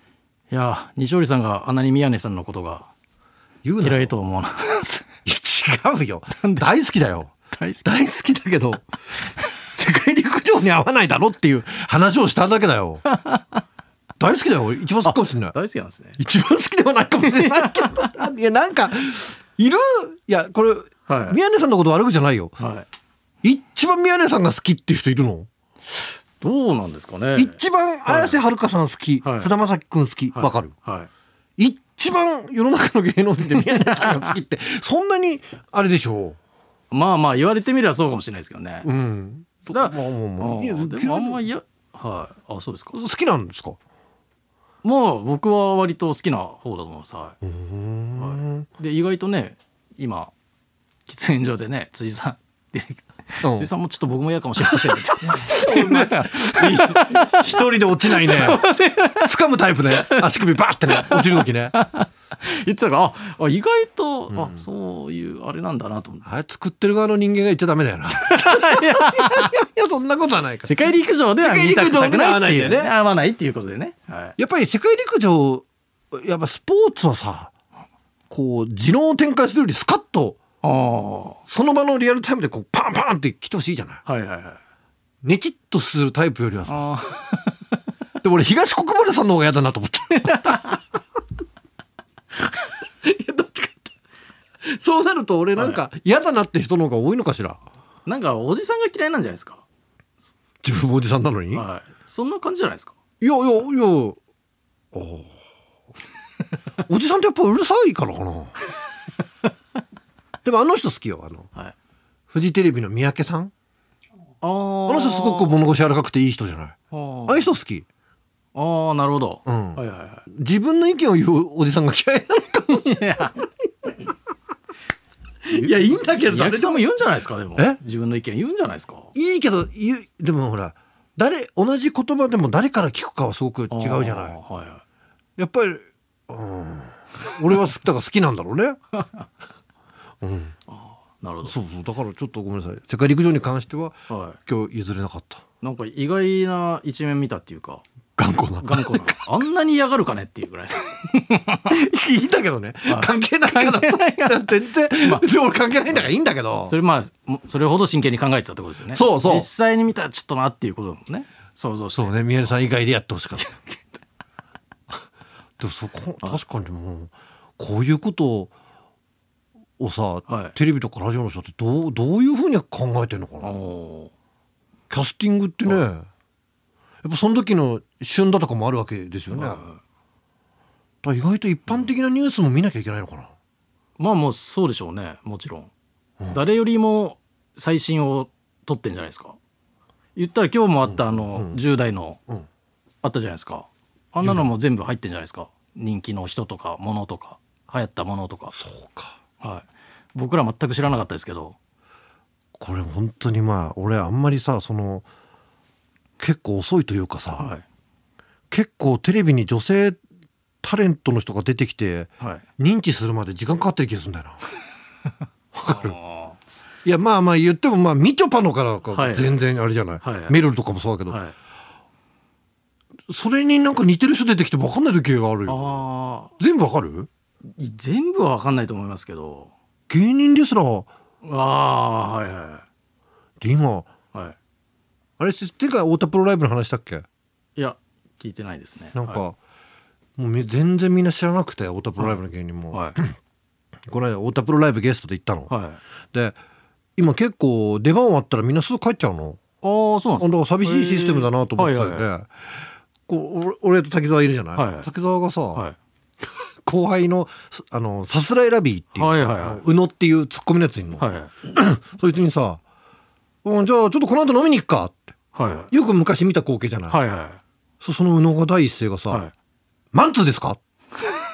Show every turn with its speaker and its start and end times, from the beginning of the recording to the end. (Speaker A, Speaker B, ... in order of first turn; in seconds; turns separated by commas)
Speaker A: 0.5-2.9, Speaker B: 3.6-4.1, Speaker A: 3.8-5.1, Speaker B: 5.2-13.1, Speaker A: 6.4-6.7, Speaker A: 7.5-7.9, Speaker A: 13.1-13.6, Speaker B: 14.2-15.5, Speaker A: 15.0-16.2, Speaker B: 16.2-22.6, Speaker A: 17.2-18.1, Speaker A: 21.1-21.4, Speaker A: 22.6-22.9, Speaker B: 23.4-25.5, Speaker A: 25.8-28.4, Speaker B: 27.4-30.7, Speaker A: 29.2-29.5, Speaker A: 30.3-31.1, Speaker B: 31.6-36.4, Speaker A: 34.0-34.2, Speaker A: 36.9-38.9, Speaker B: 38.8-41.5, Speaker A: 39.7-43.0, Speaker B: 42.9-43.8, Speaker A: 44.8-47.4, Speaker B: 47.4-48.7, Speaker A: 48.2-50.3, Speaker A: 51.1-59.3, Speaker B: 53.4-53.7, Speaker B: 54.8-58.6, Speaker B: 59.2-61.8, Speaker A: 59.9-60.3, Speaker A: 60.9-66.2, Speaker B: 64.3-64.6, Speaker B: 66.2-70.7, Speaker A: 68.2-69.5, Speaker A: 70.6-74.3, Speaker B: 71.4-72.9, Speaker B: 74.4-77.5, Speaker B: 78.3-80.4, Speaker A: 80.6-81.4, Speaker B: 81.5-84.0, Speaker A: 84.0-84.6, Speaker B: 85.2-86.8, Speaker A: 86.7-87.6, Speaker B: 88.2-90.7, Speaker A: 90.1-90.8, Speaker B: 93.0-93.9, Speaker B: 94.6-97.6, Speaker A: 95.5-95.8, Speaker A: 98.0-99.6, Speaker B: 100.6-101.6, Speaker A: 101.5-103.0, Speaker B: 103.2-104.2, Speaker B: 104.9-105.3, Speaker B: 106.8-108.5, Speaker B: 110.4-111.5, Speaker B: 112.3-113.5, Speaker A: 114.4-115.6, Speaker B: 114.9-116.8, Speaker A: 116.9-117.5, Speaker B: 117.3-117.8, Speaker A: 118.5-120.2, Speaker B: 119.5-123.2, Speaker A: 122.8-123.4, Speaker B: 125.5-126.8, Speaker A: 125.5-129.1, Speaker B: 129.1-134.4, Speaker A: 133.7-134.8, Speaker B: 135.4-138.8, Speaker A: 138.9-139.2, Speaker B: 140.2-140.5, Speaker A: 140.7-141.5, Speaker B: 141.4-145.4, Speaker A: 144.1-144.4, Speaker A: 145.6-147.8, Speaker B: 148.2-149.2, Speaker A: 148.6-151.7, Speaker B: 151.7-156.7, Speaker A: 152.9-154.5, Speaker A: 155.0-155.3, Speaker A: 156.7-162.2, Speaker B: 158.9-159.5, Speaker B: 161.9-163.6, Speaker B: 165.6-168.5, Speaker B: 169.8-173.5, Speaker A: 170.3-170.6, Speaker A: 173.4-174.1, Speaker B: 174.9-176.1, Speaker B: 177.0-179.7, Speaker A: 179.3-179.8, Speaker B: 181.0-183.3, Speaker A: 184.0-185.7, Speaker A: 186.3-189.4, Speaker A: 190.2-192.2, Speaker B: 190.9-191.6, Speaker A: 193.0-198.5, Speaker B: 194.2-194.5, Speaker B: 198.5-199.2, Speaker A: 199.4-201.6, Speaker B: 202.6-205.0, Speaker B: 206.2-207.5, Speaker A: 207.4-207.6, Speaker B: 208.5-210.0, Speaker B: 210.6-214.4, Speaker B: 215.5-216.0, Speaker A: 215.7-216.4, Speaker B: 216.8-221.2, Speaker A: 218.9-219.3, Speaker A: 220.0-220.3, Speaker A: 221.1-221.3, Speaker B: 223.1-225.8, Speaker A: 225.4-226.3, Speaker B: 226.4-227.1, Speaker A: 227.6-229.5, Speaker B: 229.9-230.9, Speaker A: 231.2-232.6, Speaker B: 233.4-233.9, Speaker B: 235.2-237.0, Speaker A: 237.6-239.2, Speaker B: 238.9-239.4, Speaker B: 240.2-243.2, Speaker B: 243.9-245.5, Speaker A: 245.5-245.8, Speaker B: 246.1-246.4, Speaker B: 247.0-249.4, Speaker A: 249.6-252.1, Speaker B: 250.2-252.3, Speaker B: 253.1-255.6, Speaker A: 254.5-254.9, Speaker B: 256.6-262.6, Speaker A: 258.9-259.6, Speaker A: 261.0-261.3, Speaker B: 263.4-265.1, Speaker A: 265.3-265.7, Speaker B: 265.7-267.0, Speaker A: 266.9-267.4, Speaker B: 267.8-269.2, Speaker B: 269.9-270.6